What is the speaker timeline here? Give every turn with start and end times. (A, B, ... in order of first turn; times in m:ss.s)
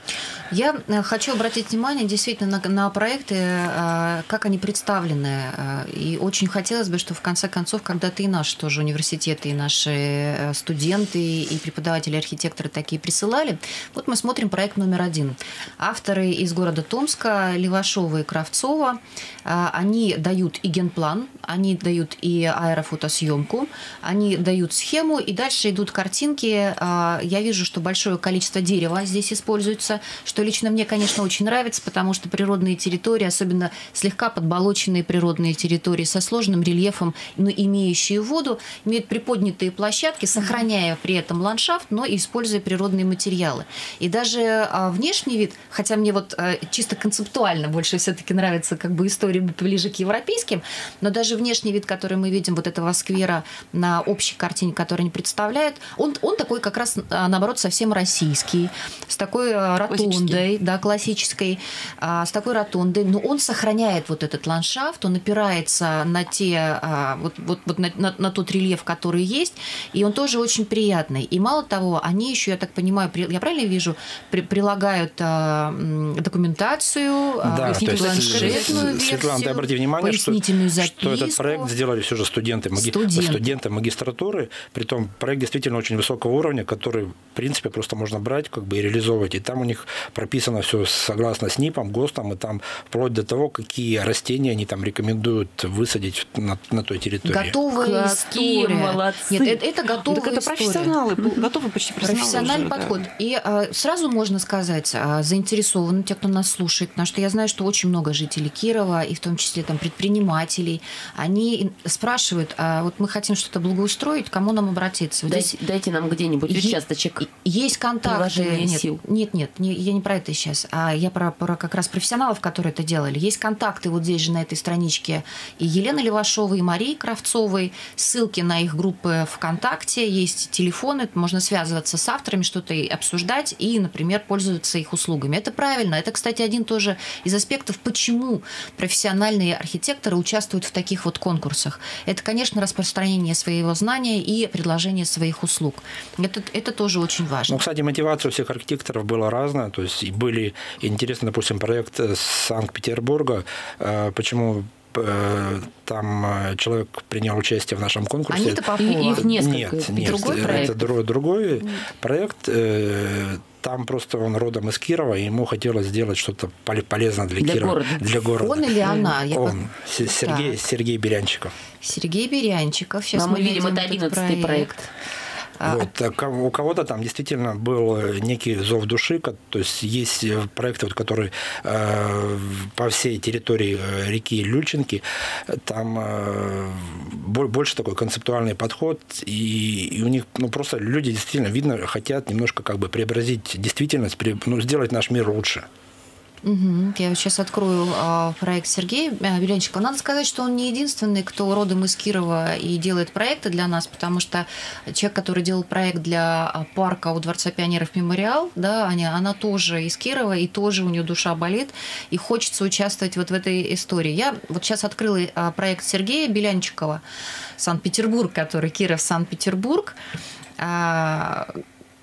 0:00.5-1:21.7 A
0:59.9-1:00.4 B
1:17.4-1:37.5 C
1:17.7-1:18.7 B
1:18.3-1:18.8 D
1:22.8-1:23.5 A
1:37.2-1:41.0 A
1:37.7-1:39.6 D
1:39.9-1:43.0 B
1:42.0-1:55.5 A
1:55.3-1:57.3 D
1:56.5-2:27.6 A
1:58.0-1:59.0 D
2:27.5-2:51.5 C
2:38.3-2:40.9 A
2:38.8-2:40.8 D
2:47.4-2:48.0 D
2:48.4-2:50.6 A
2:51.8-2:54.9 A
2:53.1-2:54.7 D
2:55.6-2:55.9 A
2:55.6-3:15.7 C
3:16.4-3:37.0 A
3:37.6-3:40.0 A
3:40.6-3:41.5 A